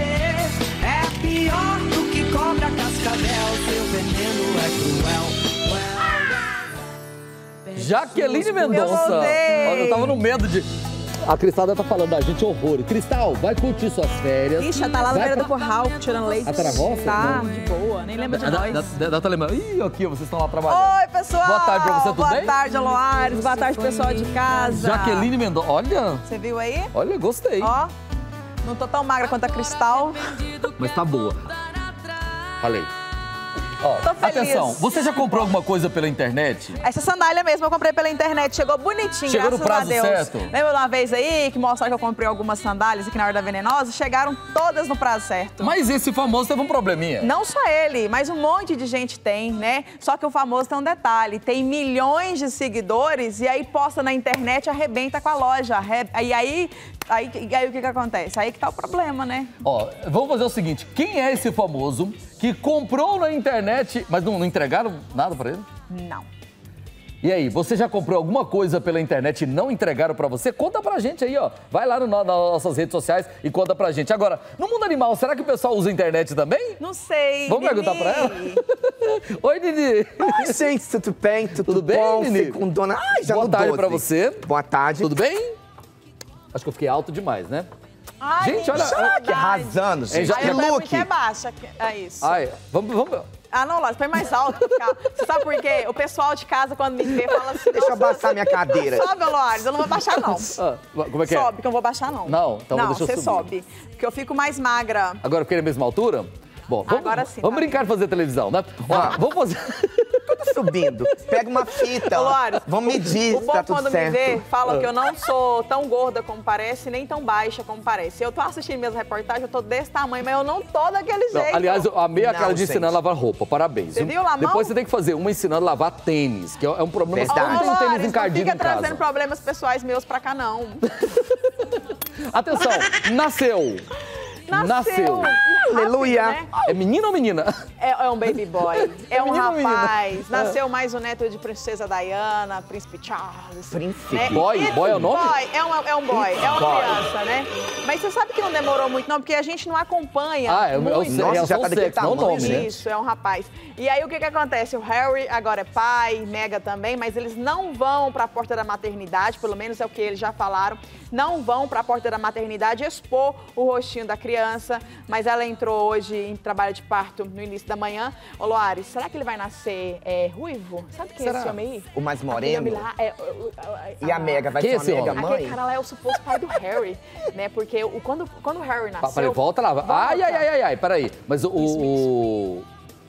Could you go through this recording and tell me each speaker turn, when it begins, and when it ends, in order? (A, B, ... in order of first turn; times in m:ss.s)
0:02.3-0:04.3 A
0:07.7-0:10.7 B
0:08.5-0:10.1 A
0:11.2-0:15.5 B
0:14.6-0:18.9 A
0:16.4-0:17.5 B
0:18.3-0:22.6 B
0:20.7-0:25.3 A
0:24.6-0:26.2 B
0:26.2-0:26.9 A
0:26.9-0:27.7 B
0:27.6-0:27.9 A
0:28.6-0:30.5 A
0:30.8-0:31.5 B
0:32.6-0:32.9 B
0:33.8-0:36.8 B
0:34.0-0:35.5 A
0:36.8-0:45.7 A
0:39.3-0:40.5 B
0:45.6-0:47.3 B
0:47.2-0:59.5 A
0:59.6-1:05.6 B
1:05.9-1:06.3 A
1:07.2-1:16.8 B
1:16.8-1:18.6 A
1:17.5-1:20.6 B
1:20.2-1:25.2 C
1:21.6-1:22.6 B
1:23.2-1:24.4 B
1:25.0-1:25.5 B
1:26.5-1:27.7 B
1:28.2-1:32.4 A
1:28.4-1:29.1 B
1:28.7-1:31.1 C
1:30.1-1:30.7 B
1:32.2-1:33.3 B
1:33.5-1:40.6 A
1:37.7-1:39.1 C
1:40.2-1:41.5 B
1:41.2-1:45.2 A
1:42.3-1:43.4 B
1:45.2-1:50.3 B
1:46.9-1:47.8 A
1:48.9-1:49.2 C
1:50.3-1:54.4 C
1:52.0-2:01.9 A
2:01.3-2:09.0 B
2:02.2-2:03.0 C
2:03.9-2:04.7 A
2:07.1-2:07.7 C
2:07.3-2:11.1 A
2:11.2-2:11.8 B
2:12.3-2:13.8 B
2:14.5-2:16.5 A
2:14.5-2:15.4 B
2:15.6-2:16.4 C
2:16.6-2:17.5 B
2:17.8-2:54.5 A
2:18.7-2:20.6 B
2:23.7-2:24.5 C
2:24.3-2:25.3 B
2:26.1-2:27.0 C
2:30.5-2:32.8 B
2:31.1-2:32.8 C
2:51.2-2:51.6 B
2:51.9-2:52.8 C
2:54.0-2:55.6 C
2:54.6-2:55.2 B
2:55.0-3:00.5 A
2:59.0-3:02.6 B
3:01.6-3:02.0 A